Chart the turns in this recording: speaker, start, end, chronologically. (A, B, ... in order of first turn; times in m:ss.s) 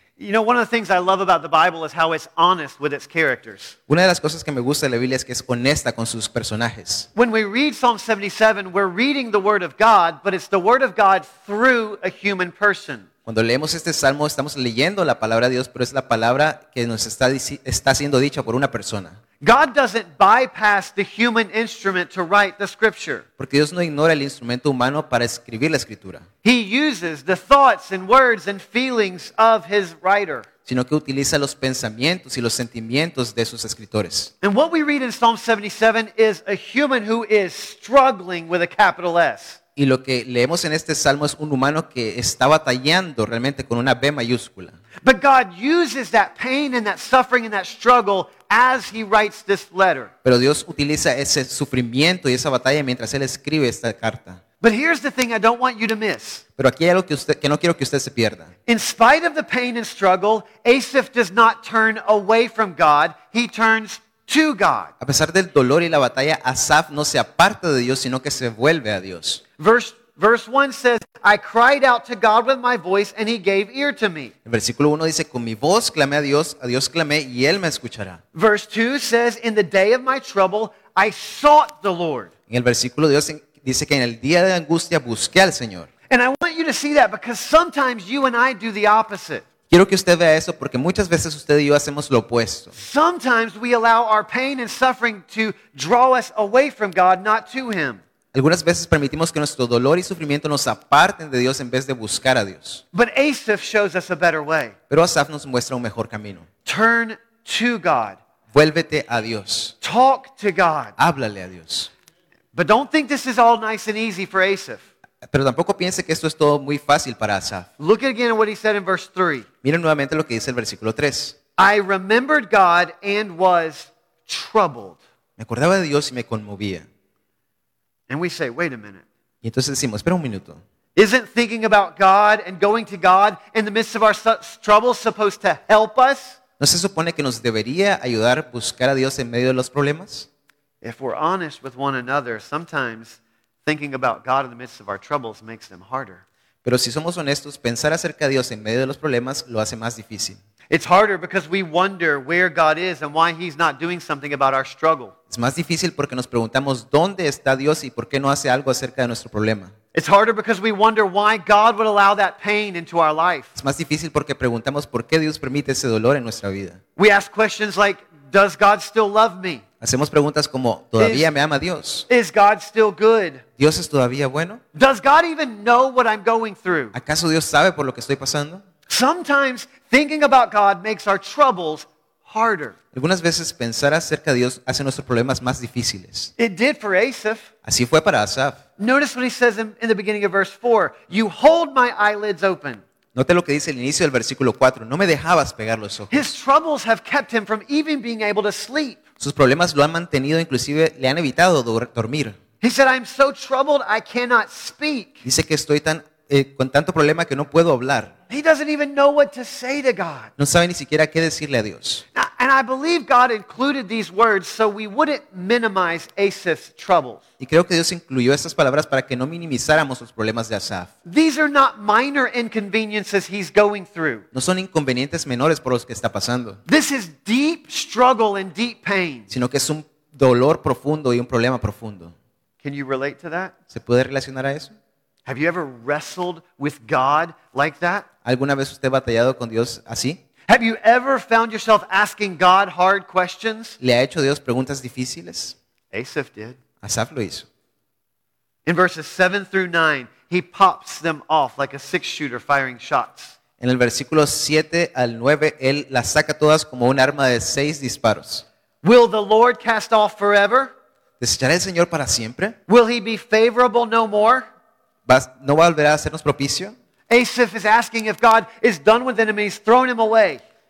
0:00.2-0:03.8 A
0:03.9-0:07.1 B
0:07.2-0:13.1 A
0:13.3-0:19.2 B
0:19.4-0:23.2 A
0:23.4-0:26.2 B
0:26.4-0:30.5 A
0:30.7-0:34.3 B
0:34.4-0:39.6 A
0:39.8-0:44.8 B
0:45.0-0:50.1 A
0:50.2-0:54.4 B
0:54.6-0:56.4 A
0:56.6-0:58.5 B
0:58.7-1:04.9 A
1:05.0-1:09.4 B
1:09.6-1:14.3 A
1:14.4-1:18.2 B
1:18.3-1:22.3 A
1:22.5-1:25.9 B
1:26.1-1:29.4 A
1:29.7-1:32.7 B
1:32.8-1:38.0 A
1:38.3-1:42.8 B
1:42.9-1:44.8 A
1:44.9-1:46.5 B
1:46.6-1:48.2 A
1:48.5-1:49.8 B
1:49.8-1:50.9 A
1:51.0-1:51.9 B
1:52.5-1:54.8 A
1:55.3-1:57.7 B
1:57.8-1:59.5 A
1:59.6-2:01.4 B
2:01.6-2:05.0 A
2:05.4-2:06.9 B
2:08.1-2:09.0 A
2:09.4-2:10.6 B
2:11.0-2:16.4 A
2:16.6-2:20.3 B
2:20.8-2:26.2 A
2:26.6-2:30.4 B
2:30.7-2:35.1 A
2:35.3-2:39.7 B
2:39.9-2:43.5 A
2:43.6-2:46.8 B
2:47.0-2:49.6 A
2:49.8-2:52.1 B
2:51.0-2:51.3 A
2:52.1-2:53.4 A
2:53.6-2:54.6 B
2:54.7-2:57.0 A
2:56.9-2:58.6 B
2:58.9-3:02.8 A
3:02.9-3:06.3 B
3:06.4-3:07.5 A
3:07.6-3:08.6 B
3:08.8-3:12.8 A
3:13.2-3:16.3 B
3:16.1-3:19.0 A
3:19.2-3:22.4 B
3:22.6-3:25.2 A
3:25.2-3:28.1 B
3:28.3-3:30.3 A
3:30.4-3:32.0 B
3:32.1-3:37.2 A
3:37.4-3:40.9 B
3:41.1-3:44.2 A
3:44.3-3:46.6 B
3:46.7-3:49.3 A
3:49.3-3:52.1 B
3:52.6-3:53.5 A
3:53.7-3:54.7 B
3:55.3-3:58.1 A
3:58.2-4:00.2 B
4:00.5-4:03.8 A
4:03.8-4:05.6 B
4:05.9-4:06.6 A
4:06.8-4:07.4 B
4:08.7-4:13.4 A
4:13.6-4:18.4 B
4:18.8-4:20.7 A
4:21.2-4:22.6 B
4:22.7-4:24.5 A
4:25.1-4:26.7 B
4:27.1-4:30.4 A